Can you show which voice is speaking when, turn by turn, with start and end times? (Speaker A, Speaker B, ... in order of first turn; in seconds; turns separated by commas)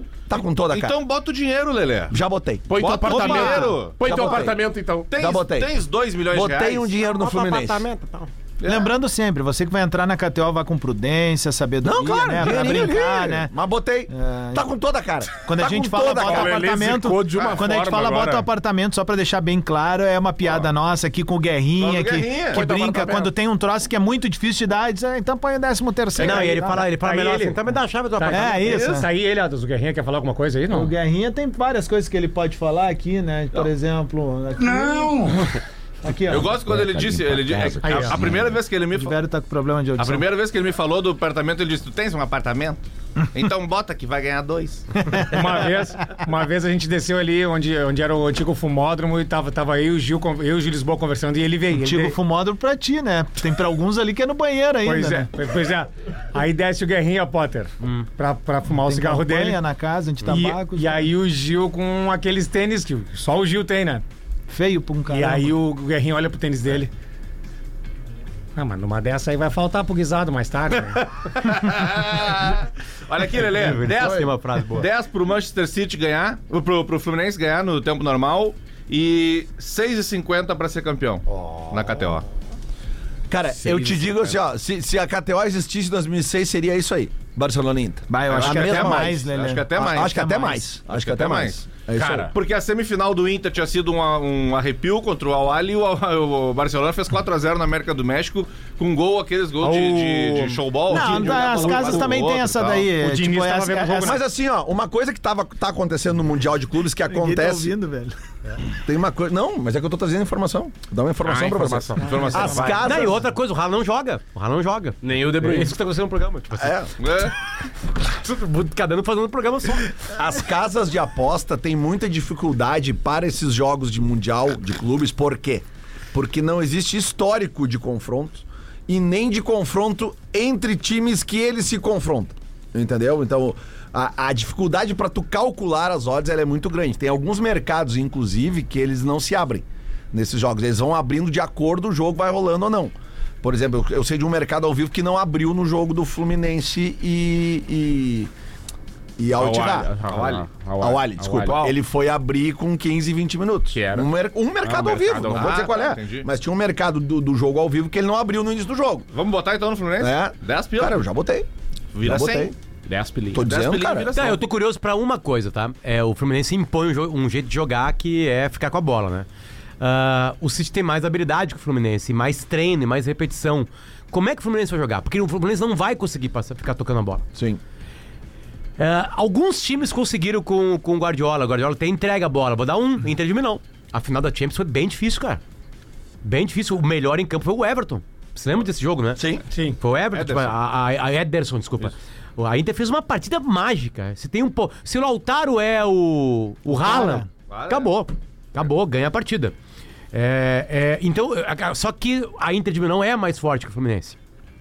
Speaker A: 0.3-1.0, Speaker B: 0.7-2.2, Speaker A: 2.1-2.8, Speaker C: 2.7-5.1, Speaker B: 2.8-4.5, Speaker D: 3.1-3.9, Speaker A: 4.0-4.6, Speaker B: 5.1-6.9, Speaker A: 5.2-5.7, Speaker A: 6.3-7.9, Speaker E: 7.0-8.3, Speaker B: 8.6-8.9, Speaker D: 8.7-13.5, Speaker A: 11.8-16.6, Speaker D: 14.1-14.7, Speaker D: 15.4-26.9, Speaker C: 16.1-18.5, Speaker B: 21.8-23.1, Speaker C: 22.5-23.3, Speaker E: 26.2-28.9, Speaker F: 26.2-27.6, Speaker F: 28.2-30.9, Speaker D: 28.3-29.1, Speaker D: 30.7-35.5, Speaker D: 36.0-36.5, Speaker B: 36.3-39.2, Speaker A: 36.6-38.5, Speaker F: 37.8-38.1, Speaker D: 38.9-40.3, Speaker B: 40.0-45.2, Speaker F: 45.3-52.2, Speaker D: 51.7-55.3, Speaker F: 54.8-59.6, Speaker D: 58.8-61.1, Speaker F: 60.2-64.0, Speaker D: 64.5-65.5, Speaker F: 65.1-66.9, Speaker F: 68.6-71.0, Speaker B: 71.2-82.2, Speaker E: 73.5-74.9, Speaker A: 83.3-89.2, Speaker C: 83.6-84.3, Speaker D: 88.1-90.7, Speaker B: 88.3-90.4, Speaker A: 89.8-92.3, Speaker B: 90.9-91.7, Speaker C: 92.0-92.3, Speaker B: 92.3-102.9, Speaker C: 99.6-100.6, Speaker F: 100.2-102.0, Speaker D: 100.9-104.2, Speaker F: 103.0-104.2, Speaker A: 104.0-107.8, Speaker D: 107.1-108.2, Speaker A: 108.8-113.2, Speaker C: 111.2-112.5, Speaker F: 112.0-112.9, Speaker B: 112.1-113.0, Speaker E: 112.8-116.9, Speaker C: 115.0-115.8, Speaker A: 116.6-116.9, Speaker B: 117.0-117.3, Speaker E: 118.0-120.0, Speaker A: 120.1-148.3, Speaker A: 149.2-149.9, Speaker C: 149.4-151.7, Speaker B: 150.1-150.5, Speaker A: 150.8-159.1, Speaker C: 153.7-154.1, Speaker C: 154.6-155.7, Speaker B: 155.3-156.3, Speaker B: 159.1-161.1, Speaker A: 160.0-161.5, Speaker B: 161.9-162.5, Speaker A: 162.0-162.6, Speaker C: 162.9-163.5, Speaker A: 163.3-164.1, Speaker B: 163.3-164.4, Speaker E: 164.2-169.3, Speaker E: 169.8-177.2, Speaker A: 177.3-177.6, Speaker E: 178.8-185.4, Speaker E: 186.2-189.2, Speaker A: 189.2-189.4, Speaker F: 189.5-189.8, Speaker E: 189.8-199.5, Speaker B: 190.1-190.6, Speaker D: 196.7-197.3, Speaker B: 197.5-197.9, Speaker E: 200.1-204.2